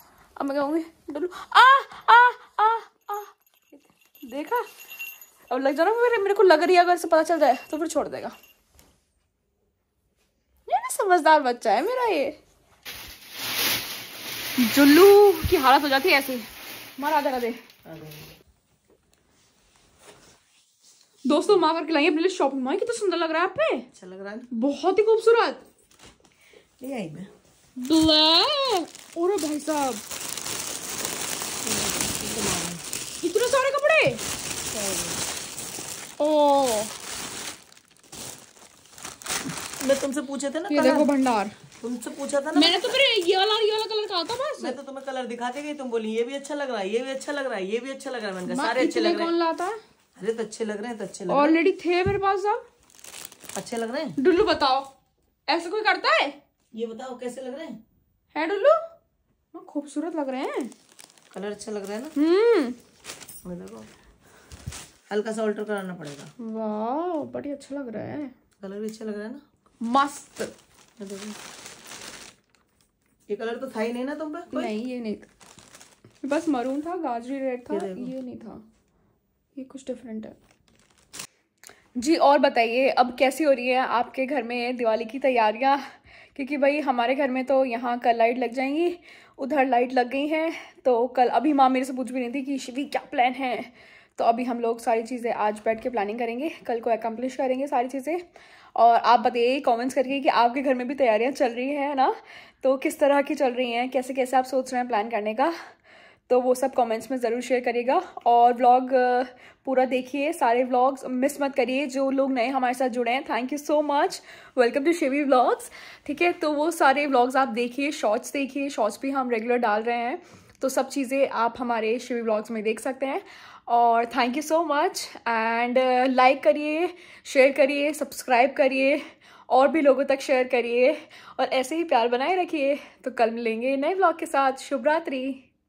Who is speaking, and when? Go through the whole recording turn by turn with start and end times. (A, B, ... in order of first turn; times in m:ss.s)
0:00.4-0:04.7 A
0:05.5-0:08.4 A
0:10.7-0:12.4 A
0:14.6-0:16.5 A
0:17.0-0:17.6 A
0:17.9-0:18.3 B
0:21.2-0:23.9 A
0:23.9-0:24.5 B
0:24.5-0:25.6 A
0:26.8-0:27.3 B
0:27.8-0:30.0 A
0:31.6-0:32.8 B
0:33.2-0:34.2 A
0:34.7-0:35.2 B
0:36.2-0:36.9 A
0:39.8-0:41.1 B
0:40.7-0:41.5 A
0:41.8-0:43.0 B
0:42.5-0:44.8 A
0:44.6-0:49.3 B
0:48.4-0:49.8 A
0:50.2-0:51.6 B
0:51.3-0:52.6 A
0:53.6-0:54.1 B
0:54.2-0:54.9 A
0:55.5-0:56.4 A
0:56.7-0:57.8 B
0:58.3-0:58.8 A
0:59.5-1:00.7 A
1:01.3-1:02.1 B
1:02.2-1:02.8 A
1:03.4-1:03.9 B
1:05.1-1:06.3 B
1:06.4-1:08.3 A
1:08.6-1:09.4 B
1:09.8-1:10.5 A
1:11.0-1:11.4 B
1:13.3-1:14.7 B
1:14.5-1:15.3 A
1:16.2-1:18.6 A
1:17.7-1:18.1 B
1:19.6-1:20.4 A
1:22.0-1:25.8 A
1:26.4-1:38.2 A
1:38.8-1:45.5 A
1:46.3-2:15.4 A